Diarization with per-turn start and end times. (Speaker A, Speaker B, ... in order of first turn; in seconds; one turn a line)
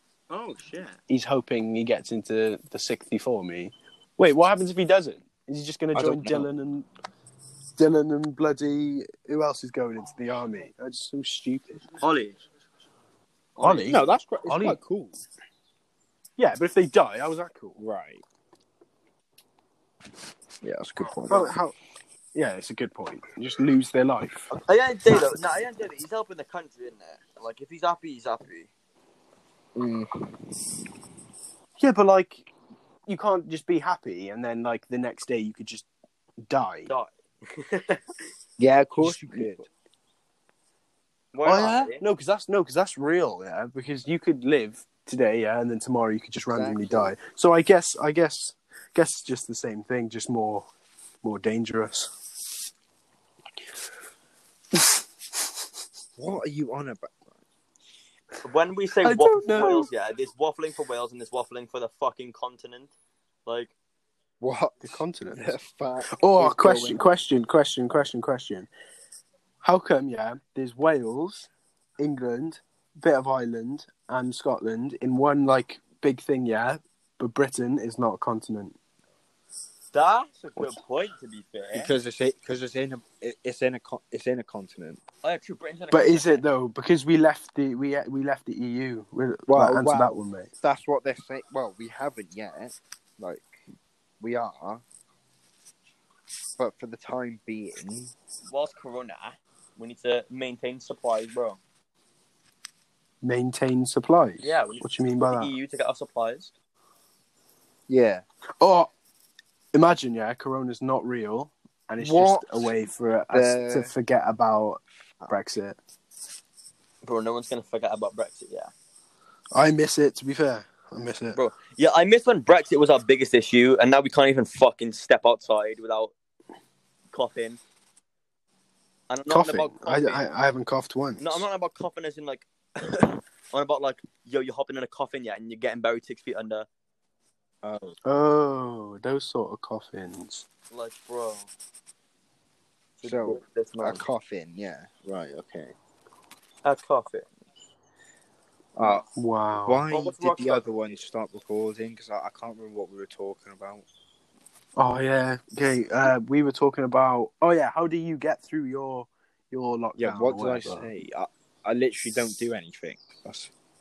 Speaker A: 0.3-1.0
Speaker B: 1.1-6.9
Speaker C: 5.9-6.5
Speaker B: 7.8-11.9
Speaker A: 12.0-12.4
Speaker B: 13.6-14.8
Speaker C: 13.6-15.2
Speaker B: 16.4-17.8
Speaker C: 17.8-18.2
Speaker C: 20.6-21.5
Speaker B: 21.3-21.8
Speaker B: 22.3-24.5
Speaker A: 24.5-28.7
Speaker C: 29.8-30.1
Speaker B: 31.8-32.5
Speaker B: 33.1-35.9
Speaker B: 36.5-36.9
Speaker A: 36.9-38.0
Speaker C: 38.6-39.7
Speaker B: 39.0-39.6
Speaker A: 41.3-42.0
Speaker B: 41.4-50.7
Speaker C: 46.5-47.1
Speaker B: 51.2-52.1
Speaker C: 56.2-57.3
Speaker A: 58.4-62.9
Speaker B: 59.0-59.9
Speaker A: 63.5-63.7
Speaker C: 64.4-67.1
Speaker B: 64.8-65.6
Speaker B: 66.1-68.7
Speaker B: 69.6-78.8
Speaker A: 79.9-81.9
Speaker C: 81.7-85.0
Speaker A: 85.2-86.4
Speaker B: 85.9-90.5
Speaker C: 89.5-93.6
Speaker C: 94.2-94.8
Speaker C: 96.6-98.1
Speaker A: 98.5-101.6
Speaker B: 103.2-105.5
Speaker A: 104.4-106.5
Speaker C: 107.9-108.2
Speaker B: 108.6-108.9
Speaker B: 109.7-115.8
Speaker C: 112.0-112.7
Speaker C: 113.3-113.9
Speaker A: 117.0-118.7
Speaker B: 119.5-121.4
Speaker A: 121.3-126.1
Speaker A: 127.1-127.6
Speaker A: 129.1-130.2
Speaker B: 129.3-131.5
Speaker A: 131.2-136.7
Speaker C: 137.6-138.0
Speaker B: 138.1-140.5
Speaker A: 140.7-141.5
Speaker A: 143.0-144.0
Speaker C: 143.0-145.8
Speaker A: 146.6-147.3
Speaker C: 148.8-149.1
Speaker B: 149.2-149.8
Speaker C: 149.7-153.9
Speaker A: 149.9-150.7
Speaker B: 154.8-160.9
Speaker C: 160.0-163.5